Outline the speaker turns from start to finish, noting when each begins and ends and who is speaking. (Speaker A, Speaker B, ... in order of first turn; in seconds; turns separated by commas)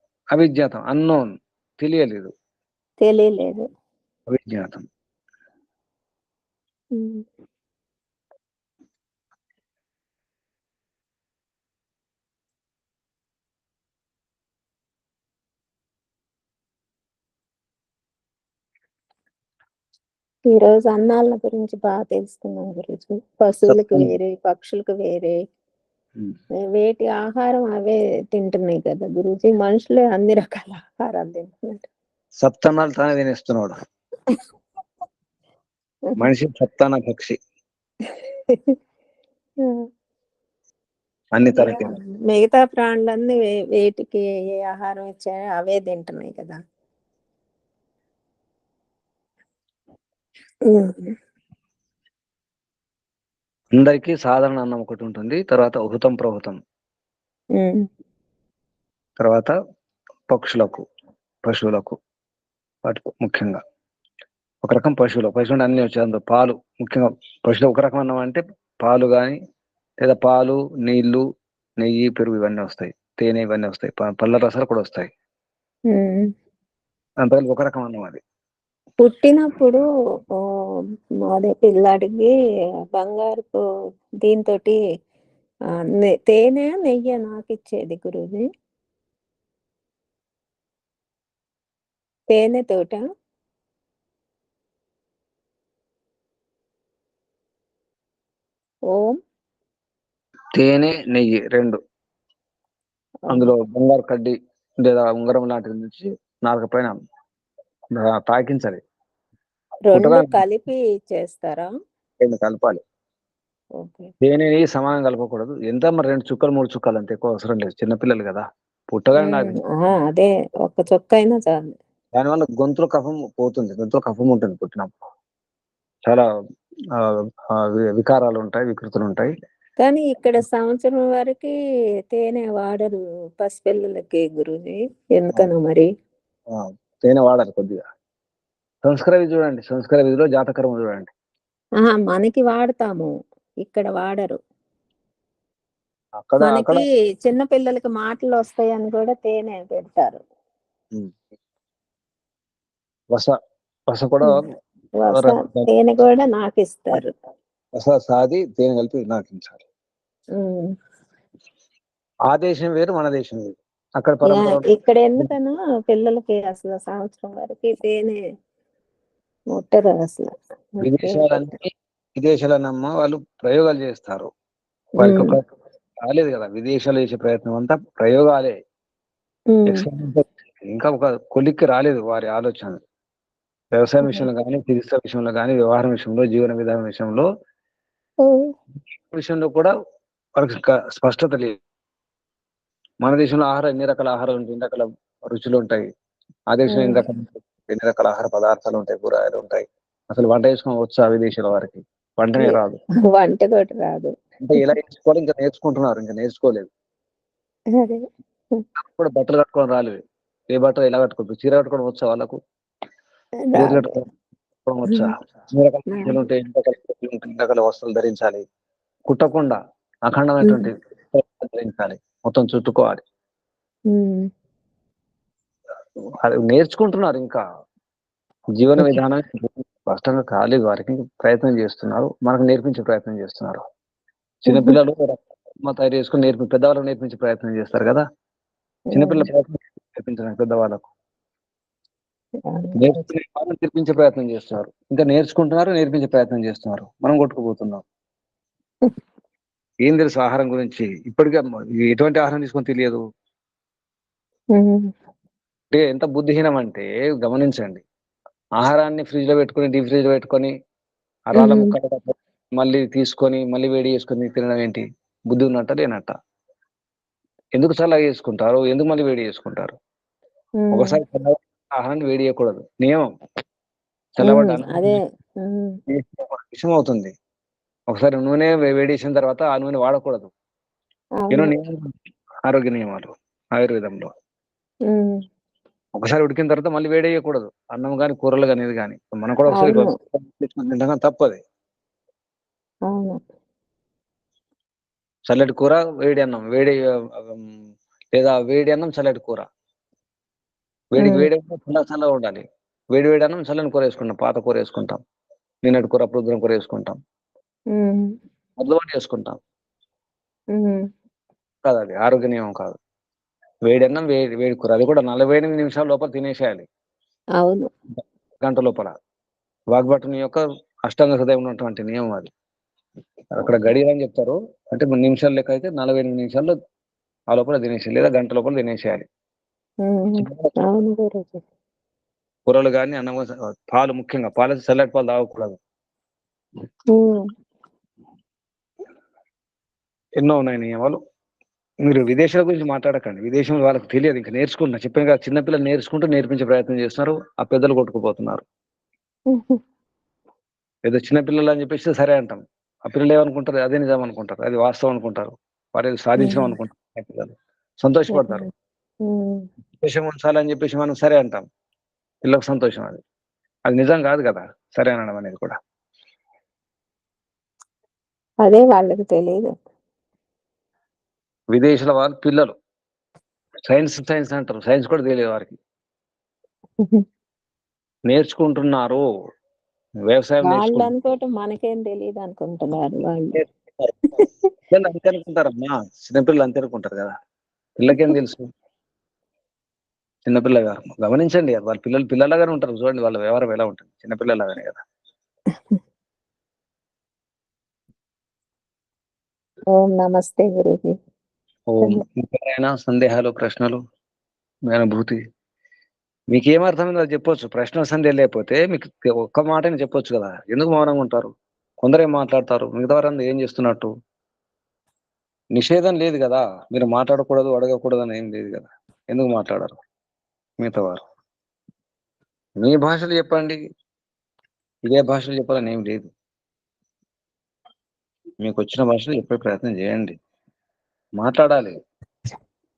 Speaker A: 0.3-2.3, Speaker B: 3.0-3.6, Speaker A: 4.3-4.8, Speaker B: 7.0-7.2, Speaker B: 20.5-25.4, Speaker A: 23.7-24.1, Speaker B: 26.7-31.9, Speaker A: 32.4-33.7, Speaker A: 36.2-37.4, Speaker B: 38.5-38.8, Speaker A: 41.3-42.0, Speaker B: 41.6-46.6, Speaker B: 50.7-51.1, Speaker A: 53.7-56.6, Speaker B: 57.6-57.9, Speaker A: 59.2-59.5, Speaker A: 60.3-60.8, Speaker A: 61.5-62.0, Speaker A: 62.9-63.6, Speaker A: 64.6-69.4, Speaker A: 70.0-71.2, Speaker A: 71.8-75.1, Speaker B: 75.9-76.3, Speaker A: 77.2-78.2, Speaker B: 79.0-79.9, Speaker B: 81.3-82.3, Speaker B: 82.9-83.6, Speaker B: 84.2-84.8, Speaker B: 86.0-88.4, Speaker B: 92.3-93.0, Speaker B: 98.9-99.2, Speaker A: 100.5-101.8, Speaker A: 103.3-106.9, Speaker A: 108.0-108.8, Speaker B: 109.9-111.7, Speaker A: 109.9-110.4, Speaker A: 112.2-112.8, Speaker B: 113.8-114.1, Speaker A: 114.2-119.6, Speaker B: 119.2-121.7, Speaker A: 122.1-124.9, Speaker A: 127.0-129.3, Speaker B: 129.8-131.5, Speaker B: 132.1-135.9, Speaker A: 136.5-137.8, Speaker A: 138.8-141.1, Speaker B: 141.8-143.1, Speaker B: 143.6-144.4, Speaker A: 146.2-146.8, Speaker B: 146.5-150.2, Speaker A: 153.9-154.5, Speaker B: 155.0-157.1, Speaker A: 155.1-155.7, Speaker A: 157.8-159.6, Speaker B: 160.4-160.7, Speaker A: 162.3-164.7, Speaker B: 164.3-168.2, Speaker B: 169.6-171.5, Speaker A: 170.8-174.3, Speaker A: 175.0-175.4, Speaker B: 175.0-175.3, Speaker A: 176.0-178.5, Speaker B: 179.5-179.8, Speaker A: 179.7-182.8, Speaker A: 183.7-187.3, Speaker A: 189.1-189.7, Speaker A: 190.4-191.6, Speaker A: 193.0-195.9, Speaker A: 196.5-202.8, Speaker B: 196.7-197.1, Speaker B: 203.2-204.1, Speaker A: 204.4-206.7, Speaker B: 207.8-208.0, Speaker A: 208.8-210.0, Speaker A: 210.5-212.4, Speaker B: 213.5-213.9, Speaker A: 213.6-214.1, Speaker A: 214.7-218.4, Speaker A: 219.1-223.0, Speaker B: 223.9-224.3, Speaker A: 226.2-227.4, Speaker A: 228.6-233.6, Speaker A: 234.5-238.0, Speaker B: 234.5-234.8, Speaker B: 238.9-239.3, Speaker A: 238.9-240.9, Speaker B: 242.5-243.1, Speaker A: 242.8-247.8, Speaker A: 249.8-253.0, Speaker B: 254.6-254.9, Speaker A: 255.7-257.8, Speaker A: 258.6-260.5, Speaker A: 261.3-266.1, Speaker B: 261.4-261.7, Speaker A: 267.6-269.8, Speaker B: 270.6-270.9, Speaker A: 270.7-273.1, Speaker A: 274.2-275.0, Speaker B: 274.3-275.8, Speaker A: 275.9-277.1, Speaker A: 277.9-280.3, Speaker B: 281.2-281.5, Speaker A: 281.3-281.9, Speaker A: 282.5-284.1, Speaker B: 284.9-285.1, Speaker A: 286.0-291.4, Speaker B: 289.6-289.9, Speaker B: 292.9-293.2, Speaker A: 295.3-297.5, Speaker A: 298.1-299.4, Speaker A: 300.9-302.4, Speaker B: 301.0-301.3, Speaker A: 302.9-305.0, Speaker A: 305.6-307.0, Speaker B: 307.7-308.1, Speaker A: 308.6-309.4, Speaker B: 310.6-310.8, Speaker A: 311.6-312.8, Speaker A: 313.7-316.6, Speaker B: 317.4-317.7, Speaker A: 318.4-318.9, Speaker A: 319.7-322.3, Speaker A: 323.3-326.5, Speaker A: 327.3-329.1, Speaker B: 329.8-331.4, Speaker A: 330.2-330.6, Speaker A: 332.5-335.6, Speaker B: 336.9-337.2, Speaker A: 340.2-341.0, Speaker A: 341.8-348.4, Speaker B: 349.3-349.6, Speaker A: 350.9-358.5, Speaker B: 356.2-356.5, Speaker B: 358.1-358.5, Speaker B: 359.1-359.4, Speaker A: 359.8-361.4, Speaker A: 362.2-363.0, Speaker A: 363.7-365.6, Speaker B: 368.4-369.5, Speaker A: 371.5-372.5, Speaker A: 373.7-375.6, Speaker A: 378.1-379.1, Speaker A: 380.1-380.9, Speaker B: 380.5-383.4, Speaker A: 383.3-387.1, Speaker A: 387.8-388.5, Speaker A: 390.3-394.8, Speaker B: 399.8-400.9, Speaker A: 401.7-403.8, Speaker A: 404.7-405.2, Speaker A: 406.3-411.3, Speaker A: 411.8-413.9, Speaker A: 415.6-419.8, Speaker A: 420.6-421.0, Speaker A: 422.6-423.6, Speaker A: 424.9-426.1, Speaker A: 428.4-430.2, Speaker A: 431.2-431.8